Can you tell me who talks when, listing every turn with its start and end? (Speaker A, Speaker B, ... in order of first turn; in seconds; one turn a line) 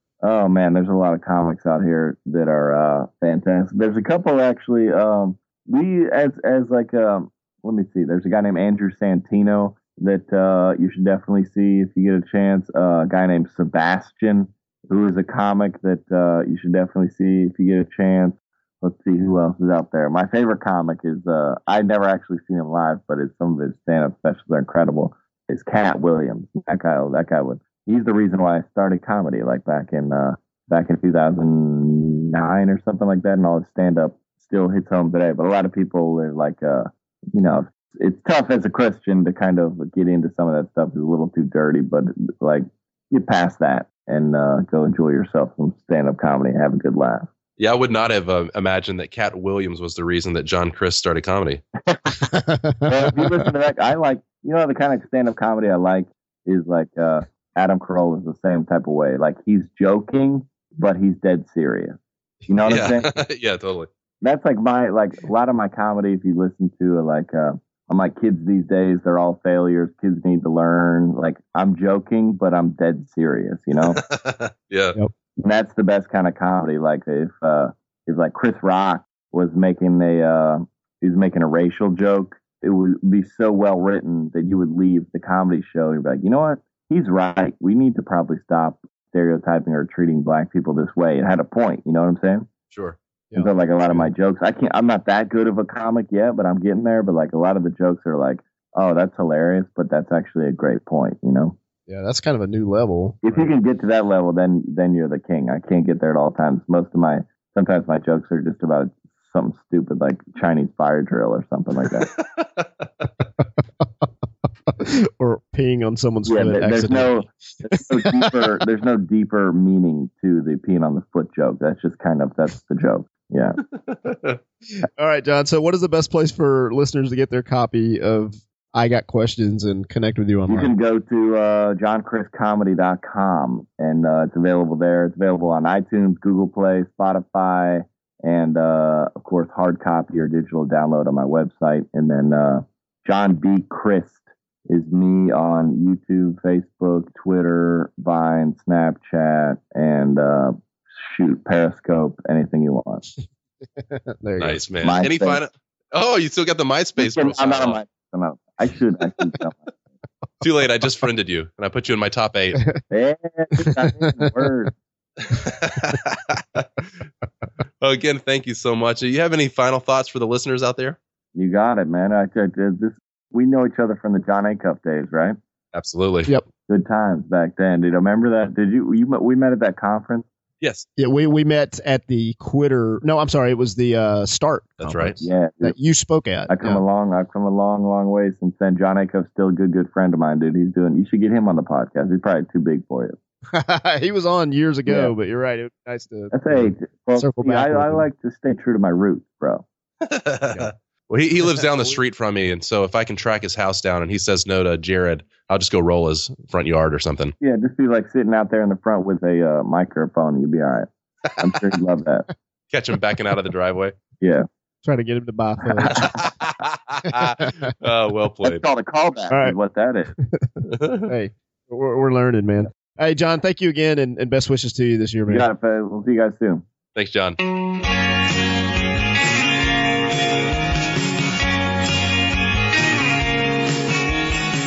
Speaker A: 0.2-47.3
Speaker B: 47.6-51.6
Speaker C: 52.3-52.9
Speaker A: 52.8-62.0
Speaker A: 62.5-63.1
Speaker B: 62.6-63.9
Speaker A: 64.2-74.0
Speaker B: 73.8-75.0
Speaker A: 75.4-92.4
Speaker B: 92.7-93.0
Speaker C: 93.3-94.1
Speaker A: 93.3-101.5
Speaker C: 101.9-103.5
Speaker A: 103.2-112.1
Speaker B: 111.8-113.1
Speaker C: 114.7-118.4
Speaker A: 116.2-123.6
Speaker B: 123.7-124.4
Speaker C: 125.0-130.7
Speaker A: 130.5-153.0
Speaker C: 153.8-154.6
Speaker B: 154.4-157.8
Speaker A: 154.8-155.4
Speaker A: 157.0-159.6
Speaker B: 160.4-162.6
Speaker A: 162.9-164.7
Speaker C: 163.6-164.3
Speaker B: 165.3-167.0
Speaker B: 167.8-171.0
Speaker A: 171.3-175.3
Speaker B: 175.7-176.3
Speaker A: 176.7-180.2
Speaker B: 180.6-180.9
Speaker C: 181.0-186.8
Speaker B: 184.8-185.2
Speaker A: 185.2-185.8
Speaker A: 186.5-193.2
Speaker C: 193.5-198.1
Speaker A: 194.9-195.1
Speaker A: 196.3-199.6
Speaker B: 200.0-207.3
Speaker A: 207.4-212.2
Speaker B: 211.2-211.6
Speaker B: 212.7-213.9
Speaker A: 214.2-214.4
Speaker C: 214.8-216.1
Speaker B: 215.9-218.6
Speaker C: 217.1-217.7
Speaker A: 218.4-220.1
Speaker C: 219.3-219.6
Speaker C: 220.2-220.4
Speaker B: 220.6-221.1
Speaker C: 221.1-225.5
Speaker A: 225.3-226.6
Speaker B: 226.9-227.4